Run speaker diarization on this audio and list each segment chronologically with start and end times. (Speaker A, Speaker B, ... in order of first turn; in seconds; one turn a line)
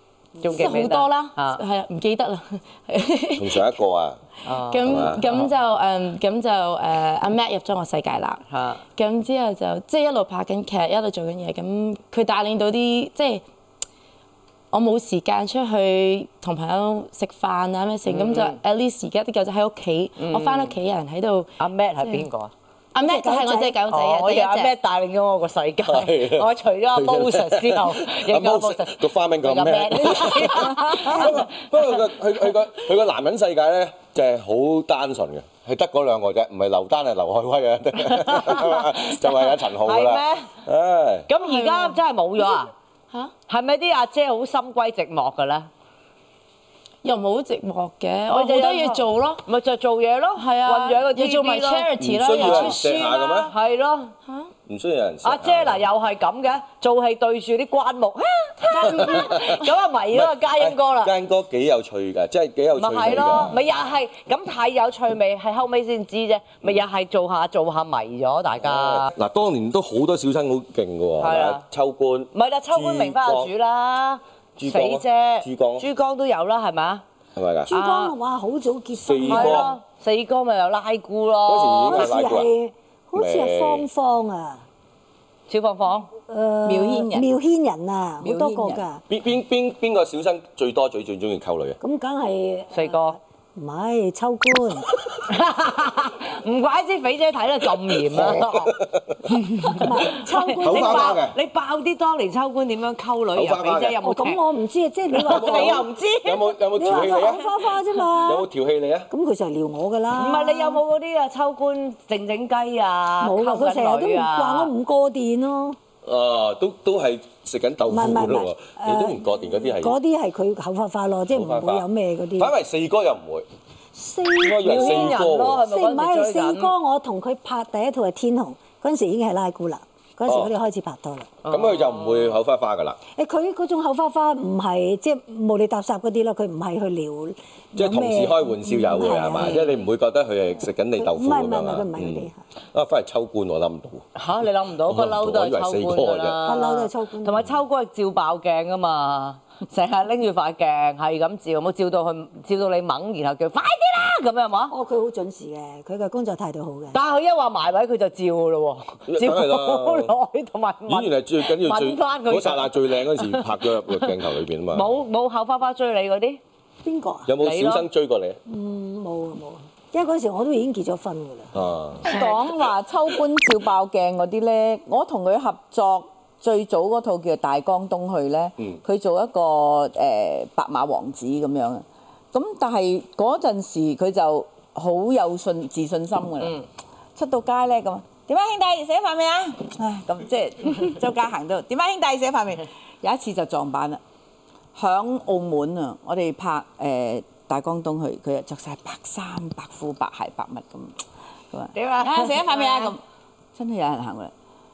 Speaker A: 0.4-1.6
Speaker B: 0.4-3.7
Speaker C: 3.4-4.2
Speaker A: 4.4-5.5
Speaker B: 4.5-8.4
Speaker C: 4.8-5.3
Speaker A: 8.5-8.8
Speaker B: 8.9-13.4
Speaker B: 14.7-22.3
Speaker A: 18.1-18.6
Speaker A: 20.2-20.7
Speaker A: 21.6-22.5
Speaker B: 22.9-24.7
Speaker D: 23.0-23.8
Speaker A: 23.9-31.5
Speaker C: 25.8-41.3
Speaker A: 38.0-40.5
Speaker A: 41.3-42.7
Speaker B: 41.4-42.0
Speaker A: 43.5-45.7
Speaker B: 47.0-49.4
Speaker A: 48.3-54.1
Speaker B: 50.4-53.5
Speaker C: 52.0-53.5
Speaker C: 54.7-55.8
Speaker A: 55.2-61.1
Speaker B: 58.7-59.6
Speaker C: 58.8-59.6
Speaker C: 60.1-63.6
Speaker A: 62.8-69.1
Speaker C: 68.6-73.5
Speaker A: 71.2-71.6
Speaker A: 72.3-77.0
Speaker C: 74.6-75.8
Speaker C: 77.3-77.7
Speaker D: 77.7-79.7
Speaker A: 77.7-78.1
Speaker C: 79.0-79.7
Speaker A: 79.2-82.1
Speaker C: 81.5-82.5
Speaker D: 81.8-84.6
Speaker C: 83.2-83.8
Speaker A: 85.5-86.1
Speaker D: 86.3-89.0
Speaker E: 86.6-87.3
Speaker E: 88.2-88.8
Speaker C: 89.1-91.8
Speaker D: 91.8-94.9
Speaker A: 92.7-93.2
Speaker A: 95.3-98.7
Speaker C: 98.0-99.9
Speaker A: 99.6-104.4
Speaker D: 99.6-101.2
Speaker C: 100.6-101.3
Speaker C: 103.3-104.0
Speaker D: 104.0-105.8
Speaker A: 105.1-106.5
Speaker C: 105.2-107.5
Speaker D: 106.7-108.5
Speaker C: 108.2-109.1
Speaker D: 109.1-110.8
Speaker A: 110.1-114.7
Speaker D: 113.2-115.8
Speaker C: 116.0-120.0
Speaker D: 117.9-122.5
Speaker C: 121.3-121.8
Speaker C: 122.4-123.5
Speaker D: 123.9-131.3
Speaker C: 124.4-125.6
Speaker A: 124.6-126.7
Speaker C: 130.3-130.5
Speaker A: 131.4-132.4
Speaker C: 131.5-133.0
Speaker D: 133.2-139.6
Speaker C: 137.8-144.1
Speaker A: 139.4-139.8
Speaker D: 140.9-142.4
Speaker A: 144.1-154.7
Speaker C: 144.8-146.4
Speaker D: 146.4-147.4
Speaker D: 154.7-157.0
Speaker A: 156.9-164.1
Speaker C: 159.1-160.1
Speaker C: 160.9-164.9
Speaker A: 164.7-166.4
Speaker D: 166.8-167.3
Speaker C: 167.3-168.4
Speaker A: 167.4-167.8
Speaker D: 168.4-171.5
Speaker C: 171.5-172.2
Speaker E: 172.0-186.6
Speaker E: 187.1-194.0
Speaker E: 194.7-203.0
Speaker A: 201.7-202.9
Speaker E: 203.5-204.3